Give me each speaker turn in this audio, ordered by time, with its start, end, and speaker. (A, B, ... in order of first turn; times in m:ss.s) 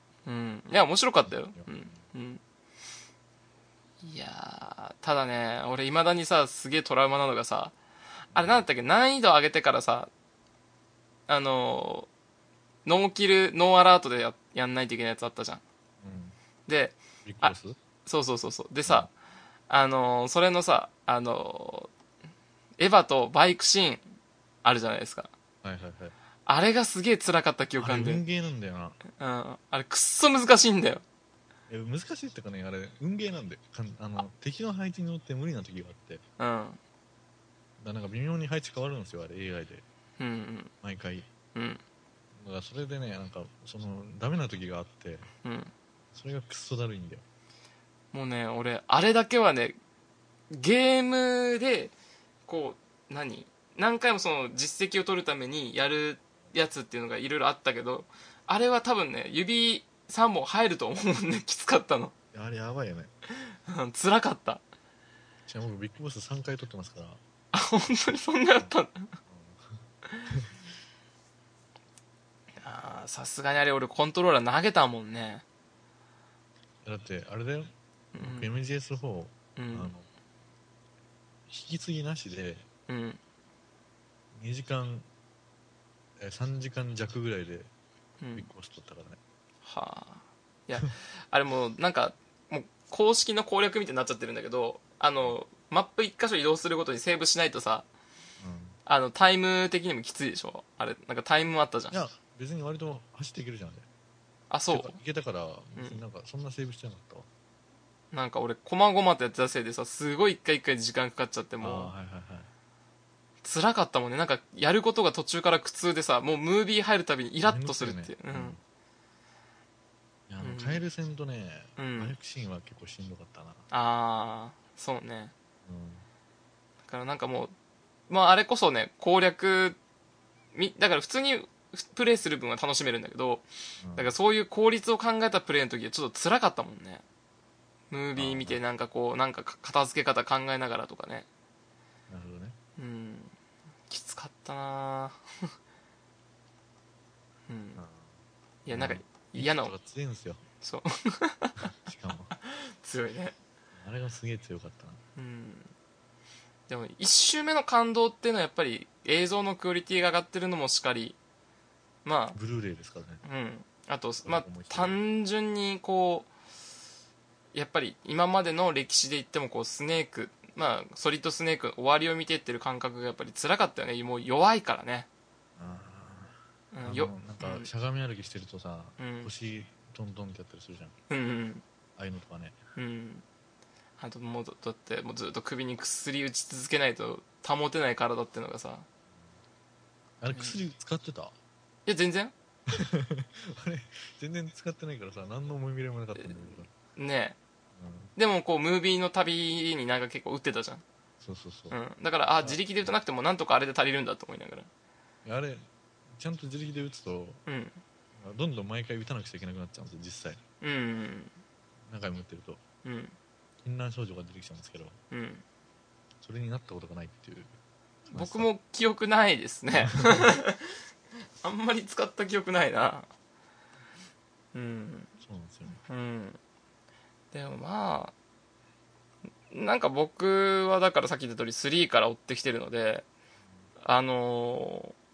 0:00.3-0:02.4 A
0:01.2-0:02.1 B
0:04.0-0:07.7 A
0:08.3-0:10.1 A
0:08.3-0:08.7 B
0:11.3-0:12.1 A
0:12.8-0:15.6 A
0:16.0-0:16.4 B
0:16.7-0:17.6 A
0:17.2-0:17.8 B
0:18.1-0:19.1 A
0:19.7-0:21.9 A
0:22.8-0:24.1 A
0:24.6-0:25.3 A
0:25.6-0:26.2 B
0:26.5-0:28.2 A
0:27.8-0:29.0 B
0:29.2-0:31.0 A
0:31.7-0:36.2 B
0:36.4-0:36.8 A
0:37.8-0:39.8 B
0:40.2-0:40.7 A
0:40.8-0:41.3 B
0:41.6-0:41.8 A
0:42.4-0:45.3 B
0:45.4-0:45.7 A
0:46.1-0:47.2 B
0:48.1-0:49.8 A
0:50.5-0:51.9 A
0:52.5-1:02.1 A
1:02.3-1:03.1 B
1:03.7-1:04.6 A
1:05.5-1:07.2 B
1:07.5-1:09.1 A
1:09.3-1:10.5 B
1:12.6-1:15.4 A
1:16.8-1:20.1 B
1:18.1-1:18.5 A
1:19.6-1:19.9 A
1:21.5-1:22.7 B
1:22.9-1:23.2 A
1:24.3-1:25.1 B
1:26.2-1:27.7 B
1:28.2-1:28.5 A
1:28.4-1:29.2 B
1:29.6-1:37.9 A
1:38.4-1:38.8 B
1:38.9-1:42.0 A
1:41.9-1:43.9 B
1:44.5-1:45.0 A
1:44.7-1:47.3 B
1:48.1-1:51.9 A
1:51.6-1:52.5 B
1:53.4-1:58.6 A
1:57.4-1:58.6 B
2:00.3-2:03.7 B
2:00.4-2:00.8 A
2:01.8-2:02.1 A
2:03.7-2:05.3 A
2:05.6-2:06.0 B
2:06.9-2:07.5 A
2:08.1-2:09.8 A
2:10.5-2:13.4 A
2:13.8-2:14.1 B
2:14.0-2:17.0 A
2:17.9-2:21.3 A
2:18.2-2:18.6 B
2:22.1-2:22.6 B
2:22.8-2:23.3 A
2:23.9-2:25.5 A
2:27.5-2:27.8 A
2:27.8-2:28.2 B
2:28.6-2:29.7 A
2:28.7-2:30.4 B
2:30.6-2:31.7 A
2:31.6-2:32.3 B
2:32.4-2:33.4 A
2:33.8-2:35.0 B
2:35.2-2:35.7 A
2:36.7-2:41.2 A
2:42.0-2:42.4 A
2:42.4-2:43.2 B
2:43.2-2:46.3 A
2:44.2-2:45.0 B
2:47.5-2:55.1 A
2:55.6-3:01.0 B
2:56.7-2:57.7 A
2:59.0-2:59.3 A
3:01.1-3:01.6 A
3:02.0-3:02.6 B
3:02.8-3:03.2 A
3:04.0-3:08.9 A
3:10.2-3:11.4 B
3:10.3-3:10.6 A
3:11.9-3:12.3 A
3:12.7-3:16.7 B
3:16.2-3:17.4 A
3:17.8-3:18.1 B
3:18.2-3:20.8 A
3:21.2-3:21.8 B
3:21.7-3:24.7 A
3:22.4-3:22.9 B
3:25.2-3:27.4 B
3:27.5-3:27.8 A
3:28.2-3:30.4 B
3:30.6-3:31.3 A
3:31.9-3:32.6 B
3:32.8-3:33.1 A
3:33.6-3:35.0 B
3:35.1-3:35.4 A
3:36.2-3:37.6 B
3:38.1-3:38.5 B
3:38.1-3:40.8 A
3:39.8-3:40.3 B
3:41.4-3:43.1 A
3:44.5-3:45.1 A
3:45.2-3:45.8 B
3:45.8-3:46.4 A
3:47.3-3:48.1 A
3:49.5-3:53.0 A
3:53.8-3:55.0 A